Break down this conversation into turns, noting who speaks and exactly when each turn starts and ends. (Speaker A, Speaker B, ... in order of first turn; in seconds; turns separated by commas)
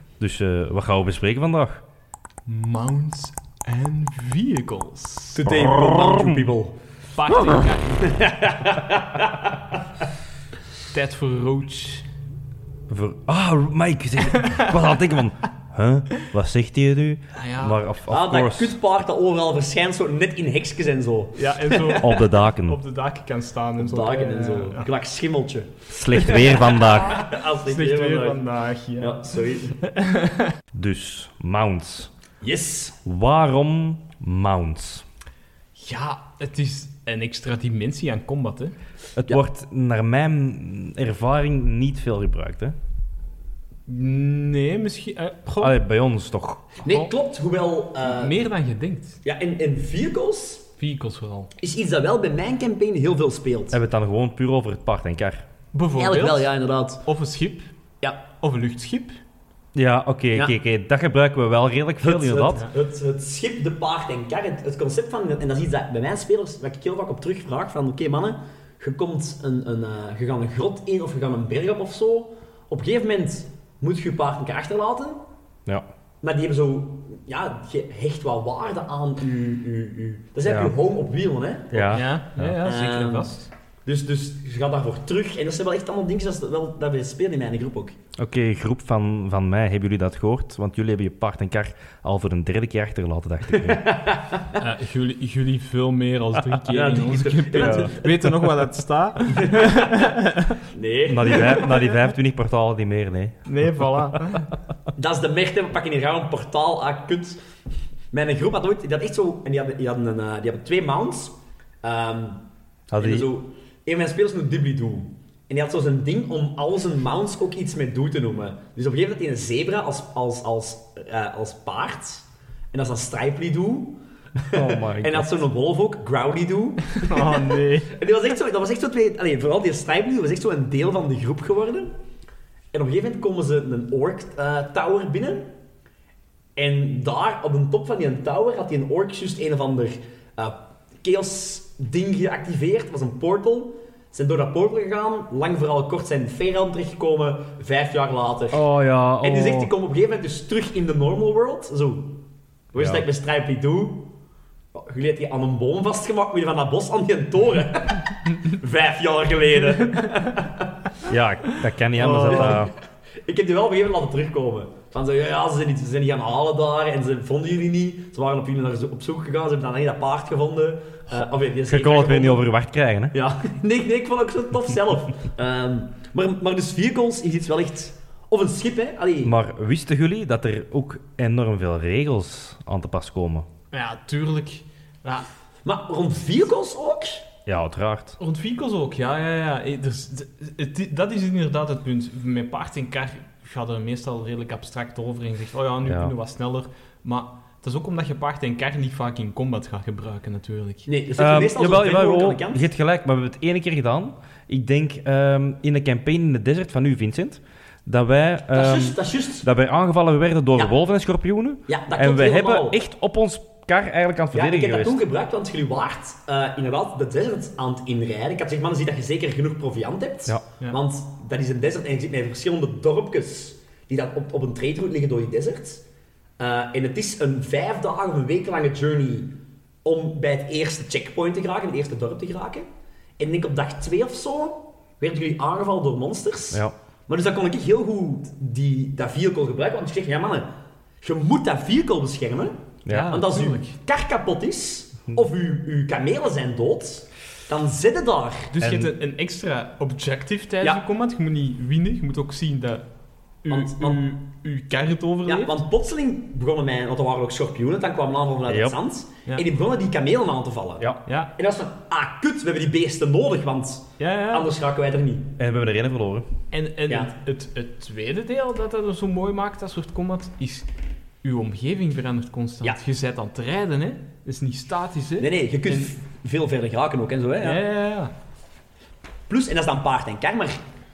Speaker A: 0.2-1.8, Speaker B: 2.5-5.4, Speaker C: 5.3-6.8, Speaker A: 5.5-6.3, Speaker B: 7.2-8.1, Speaker C: 7.9-9.8, Speaker B: 10.9-12.1, Speaker A: 12.9-18.8, Speaker B: 14.3-14.7, Speaker B: 17.3-17.8, Speaker C: 18.1-22.0, Speaker B: 21.4-24.9, Speaker A: 22.0-22.8, Speaker C: 23.8-28.4, Speaker A: 25.9-27.2, Speaker B: 27.6-30.5, Speaker C: 29.0-29.8, Speaker A: 30.7-32.1, Speaker C: 32.4-33.0, Speaker A: 33.0-35.0, Speaker B: 35.8-38.7, Speaker A: 39.2-42.8, Speaker B: 43.9-45.8, Speaker A: 45.6-46.8, Speaker C: 46.8-48.4, Speaker B: 48.0-49.2, Speaker C: 49.2-50.6, Speaker B: 50.8-51.5, Speaker C: 51.6-53.8, Speaker A: 53.7-55.4, Speaker B: 55.7-56.5, Speaker C: 56.0-57.0, Speaker B: 57.0-57.7, Speaker B: 58.4-59.2, Speaker A: 59.7-62.6, Speaker C: 62.0-75.2, Speaker C: 76.2-82.0, Speaker A: 80.4-80.7, Speaker A: 81.7-82.6, Speaker B: 81.9-83.5, Speaker C: 82.6-83.3, Speaker C: 83.8-88.0, Speaker A: 88.2-93.8, Speaker C: 93.6-94.6, Speaker B: 94.6-100.6, Speaker C: 96.7-98.5, Speaker A: 97.5-97.9, Speaker C: 99.3-99.8, Speaker C: 100.7-101.7, Speaker A: 101.0-104.4, Speaker B: 101.4-102.0, Speaker B: 103.5-104.5, Speaker C: 105.0-107.4, Speaker C: 108.1-112.4, Speaker A: 112.9-113.3, Speaker C: 113.0-131.9, Speaker A: 124.5-125.4, Speaker B: 126.9-127.9, Speaker C: 132.7-135.5, Speaker C: 136.6-148.6, Speaker A: 148.5-149.7, Speaker C: 149.2-152.2, Speaker C: 152.7-154.1, Speaker A: 152.7-153.0, Speaker C: 154.7-160.7, Speaker A: 161.1-162.7, Speaker B: 162.0-162.6, Speaker C: 162.0-162.7, Speaker C: 163.2-172.5, Speaker A: 171.7-173.1, Speaker C: 173.1-179.3, Speaker A: 179.2-183.5, Speaker B: 183.7-185.3, Speaker C: 185.6-187.2, Speaker A: 187.4-188.2, Speaker B: 188.2-200.9, Speaker A: 195.8-196.1, Speaker C: 200.8-202.7, Speaker A: 201.2-215.0, Speaker C: 208.5-209.5, Speaker C: 211.7-212.8, Speaker C: 214.3-225.8, Speaker C: 226.4-229.3, Speaker C: 229.8-232.7, Speaker C: 233.2-240.5, Speaker C: 241.0-248.5, Speaker A: 242.8-243.2, Speaker B: 242.9-243.7, Speaker B: 248.5-252.8, Speaker A: 248.6-248.9, Speaker B: 253.4-255.6, Speaker C: 253.5-254.0, Speaker C: 255.2-265.3, Speaker A: 258.5-258.8, Speaker B: 261.1-261.3, Speaker B: 264.0-264.5, Speaker A: 265.4-266.3, Speaker B: 266.5-270.7, Speaker B: 271.2-275.9, Speaker C: 275.2-277.6, Speaker B: 277.4-278.1, Speaker C: 279.3-280.6